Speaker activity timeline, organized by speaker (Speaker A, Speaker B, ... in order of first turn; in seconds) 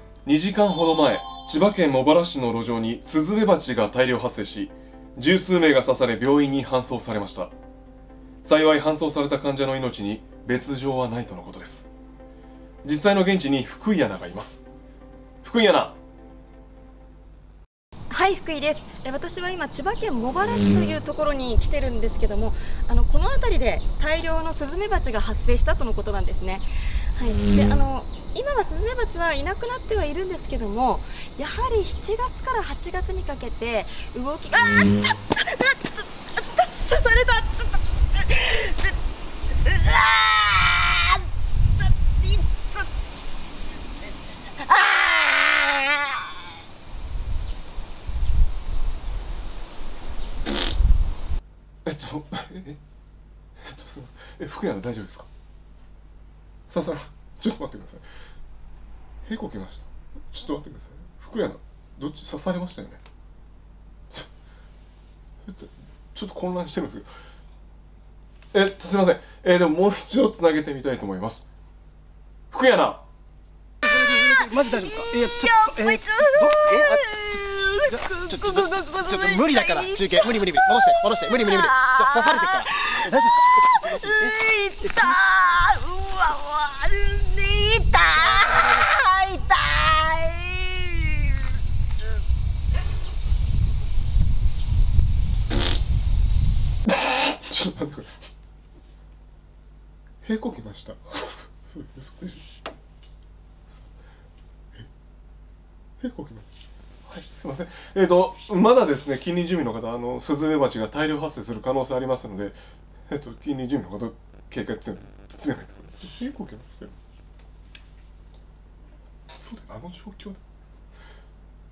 Speaker A: 0.2-7.5, 8.4-11.9, 12.8-14.6, 15.4-16.0, 51.9-52.8, 53.6-55.3, 56.7-58.0, 59.2-63.0, 65.4-67.1, 68.5-71.5, 72.5-73.0, 97.1-98.3, 100.2-102.5, 106.0-106.5, 107.1-117.0, 119.3-120.4
Speaker B: 18.1-41.3, 42.0-42.8, 44.5-46.3, 75.4-80.9, 81.4-91.5
Speaker C: 73.8-84.4, 84.9-85.2, 88.2-88.9